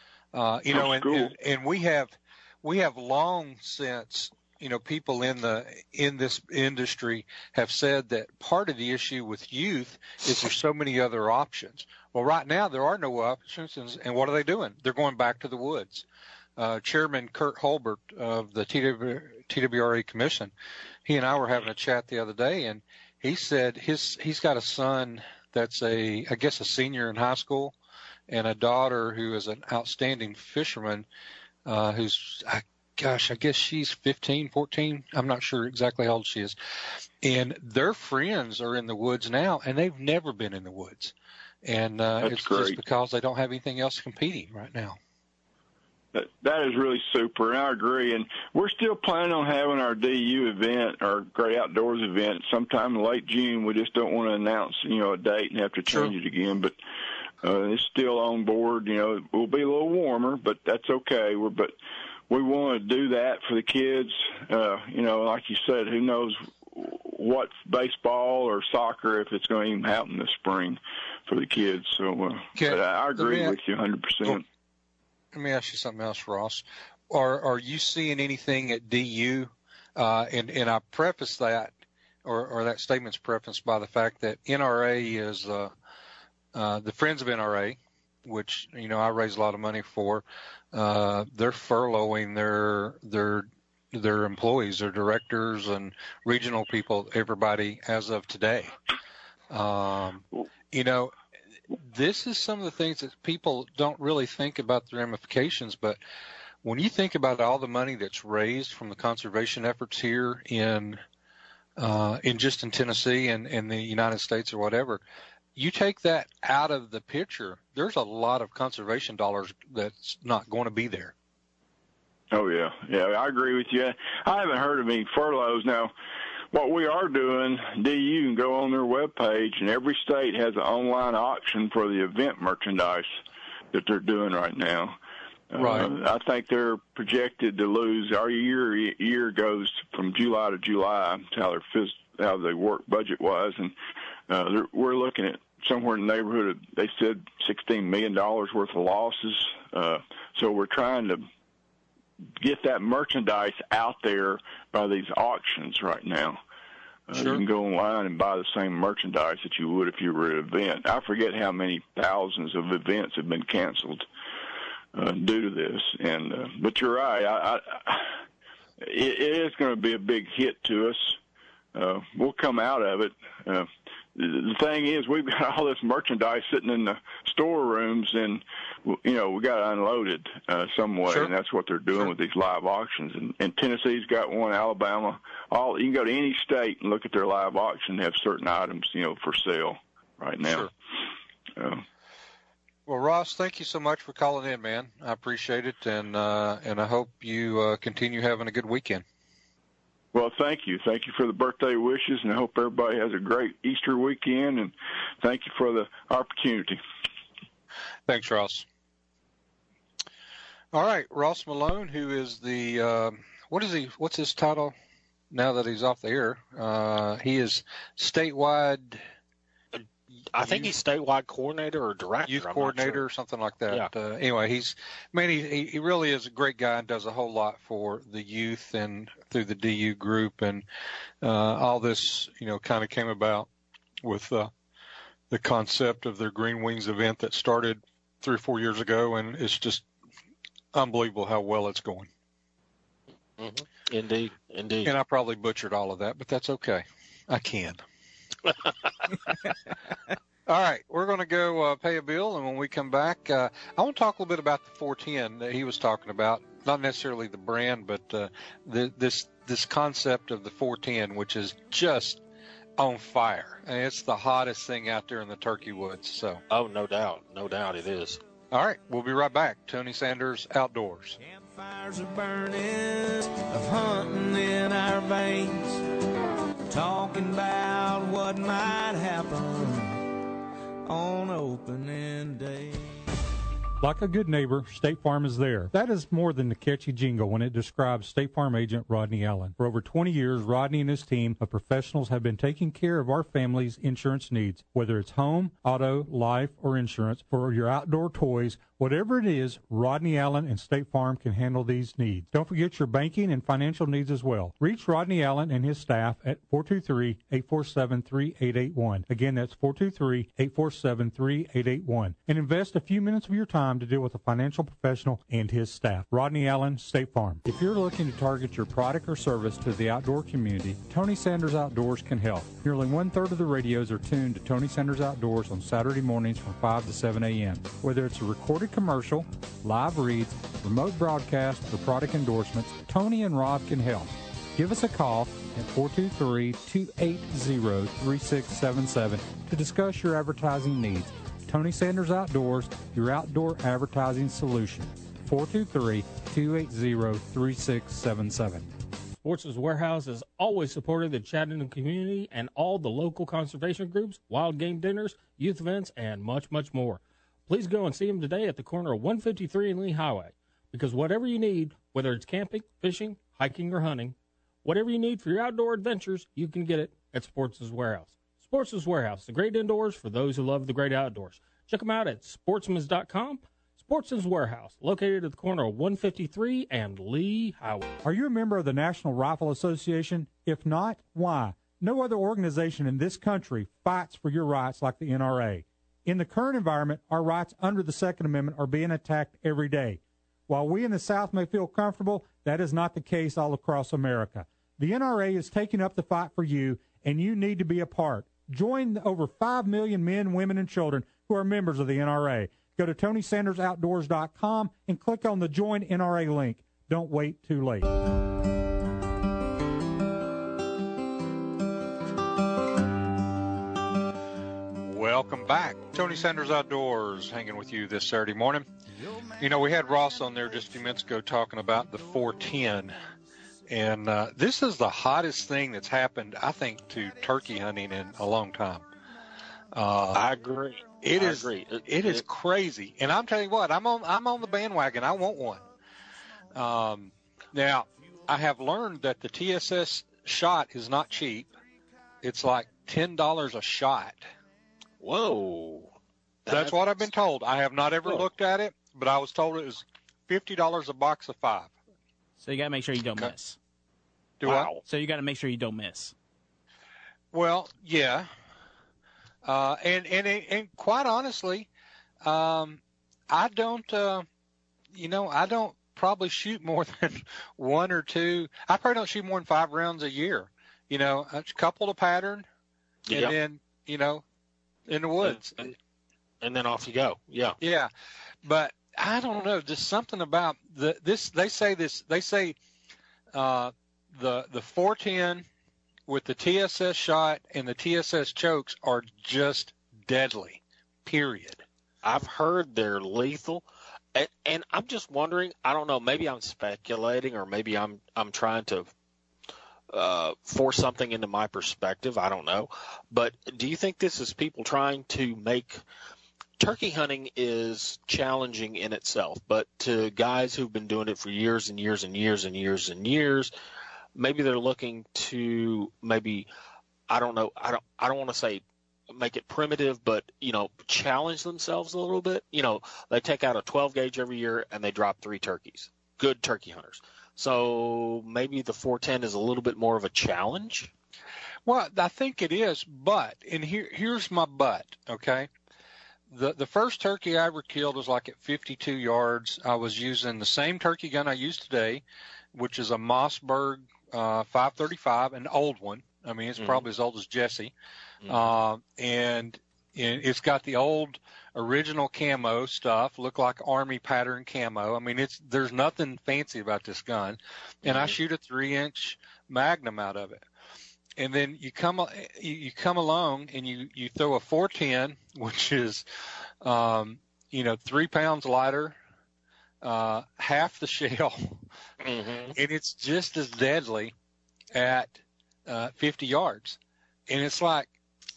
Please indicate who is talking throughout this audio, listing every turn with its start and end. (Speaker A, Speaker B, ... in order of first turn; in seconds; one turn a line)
Speaker A: 0.3-16.0
Speaker B: 0.7-1.3
Speaker A: 16.6-20.5
Speaker A: 21.0-27.7
Speaker A: 28.3-31.1
Speaker A: 31.6-36.5
Speaker A: 37.2-41.1
Speaker A: 41.6-45.0
Speaker B: 42.2-42.8
Speaker B: 46.1-56.7
Speaker B: 57.4-61.7
Speaker B: 62.3-74.4
Speaker A: 72.5-73.5
Speaker A: 75.3-81.7
Speaker A: 82.2-85.7
Speaker A: 86.5-98.7
Speaker A: 99.5-101.1
Speaker A: 101.8-106.0
Speaker A: 106.6-111.0
Speaker A: 111.8-115.0
Speaker A: 115.5-121.1
Speaker B: 122.3-125.9
Speaker B: 126.5-133.1
Speaker B: 133.7-135.0
Speaker B: 135.5-143.8
Speaker A: 135.6-135.9
Speaker B: 144.3-151.3
Speaker B: 152.4-156.4
Speaker B: 157.1-164.1
Speaker A: 157.1-157.4
Speaker B: 164.9-168.2
Speaker B: 168.8-171.2
Speaker B: 171.7-190.7
Speaker A: 190.4-190.7
Speaker B: 191.6-191.8
Speaker A: 192.9-199.0
Speaker B: 200.1-206.8
Speaker A: 208.1-208.6
Speaker A: 210.7-214.7
Speaker A: 215.3-219.0
Speaker C: 219.7-223.0
Speaker A: 220.4-220.7
Speaker A: 222.3-230.6
Speaker A: 231.2-233.5
Speaker A: 234.0-234.5
Speaker A: 235.3-239.8
Speaker A: 240.7-242.1
Speaker C: 243.4-244.9
Speaker A: 244.8-247.8
Speaker A: 250.5-262.2
Speaker A: 262.8-266.4
Speaker C: 266.5-268.2
Speaker A: 268.5-271.2
Speaker D: 271.2-275.8
Speaker D: 276.7-280.1
Speaker D: 280.9-283.0
Speaker E: 283.8-348.7
Speaker F: 349.2-377.9
Speaker E: 378.0-407.9
Speaker A: 414.9-418.6
Speaker A: 419.4-422.9
Speaker A: 423.7-428.9
Speaker A: 429.7-430.2
Speaker C: 430.1-432.2
Speaker A: 431.0-435.6
Speaker A: 436.5-441.5
Speaker A: 442.2-444.2
Speaker C: 445.0-445.9
Speaker C: 446.4-447.0
Speaker A: 446.5-451.7
Speaker G: 452.4-453.6
Speaker A: 454.4-454.8
Speaker C: 454.4-454.8
Speaker G: 454.8-456.1
Speaker A: 457.3-458.3
Speaker A: 459.4-461.7
Speaker A: 462.2-464.2
Speaker A: 464.9-472.5
Speaker C: 473.1-473.3
Speaker A: 473.1-474.2
Speaker A: 474.9-475.8
Speaker C: 476.4-477.6
Speaker A: 477.6-477.9
Speaker A: 478.4-482.6
Speaker A: 483.3-485.4
Speaker A: 486.1-491.6
Speaker C: 492.0-498.9
Speaker C: 499.9-505.8
Speaker C: 506.6-513.5
Speaker C: 514.1-516.5
Speaker C: 517.1-530.9
Speaker A: 531.7-535.5
Speaker A: 536.3-542.0
Speaker A: 542.5-547.7
Speaker C: 546.6-546.8
Speaker C: 548.2-548.5
Speaker A: 548.2-560.4
Speaker C: 557.8-558.2
Speaker A: 561.2-566.0
Speaker A: 566.6-569.0
Speaker A: 569.8-571.6
Speaker C: 572.0-572.5
Speaker A: 572.5-574.1
Speaker A: 574.7-577.9